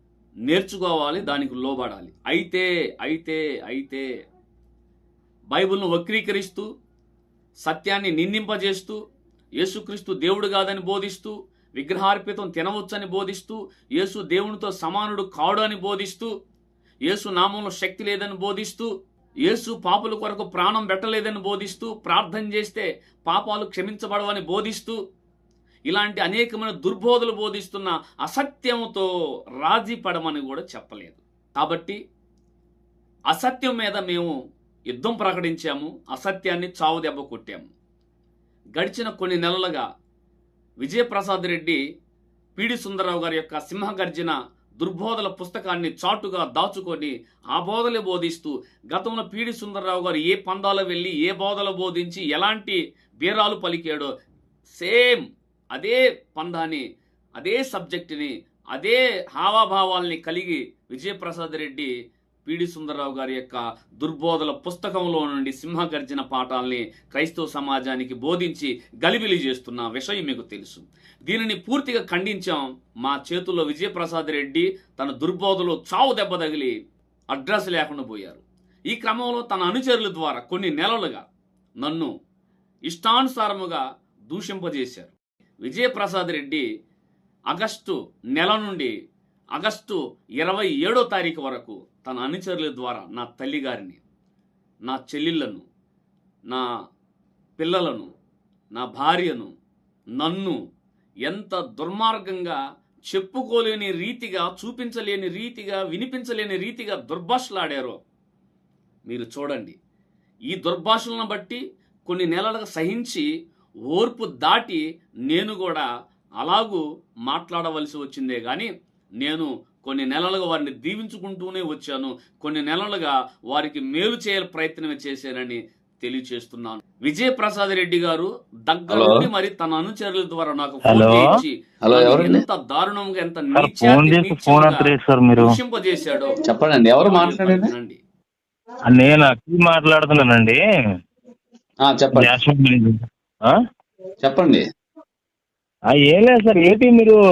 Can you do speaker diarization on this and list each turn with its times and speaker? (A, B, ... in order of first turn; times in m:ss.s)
0:00.5-0:04.0 A
0:05.5-0:06.7 A
0:07.6-0:09.0 A
0:09.6-0:16.3 A
0:17.0-0:18.9 A
0:19.4-0:25.0 A
0:25.9-0:29.1 A
0:29.6-0:32.0 A
0:33.3-0:34.3 A
0:34.9-0:37.7 A
0:38.8-0:39.8 A
0:40.8-0:41.8 A
0:42.6-0:54.1 A
0:54.7-0:56.8 A
0:57.4-1:01.9 A
1:02.4-1:16.7 A
1:17.3-1:21.3 A
1:21.8-1:22.1 A
1:22.9-1:26.6 A
1:27.5-1:28.9 A
1:29.5-1:34.0 A
1:34.8-1:35.6 A
1:37.6-1:38.1 A
1:38.7-1:39.5 A
1:40.2-1:40.6 A
1:41.2-1:48.0 A
1:49.1-1:49.7 A
1:50.5-1:53.3 A
1:53.9-1:55.9 A
1:56.4-2:16.4 A
2:08.9-2:09.3 B
2:10.8-2:11.2 C
2:11.8-2:12.4 B
2:13.6-2:15.5 C
2:16.4-2:17.7 B
2:17.0-2:18.0 A
2:18.9-2:20.6 C
2:21.8-2:22.3 B
2:22.1-2:23.6 C
2:24.2-2:24.6 B
2:25.9-2:27.2 C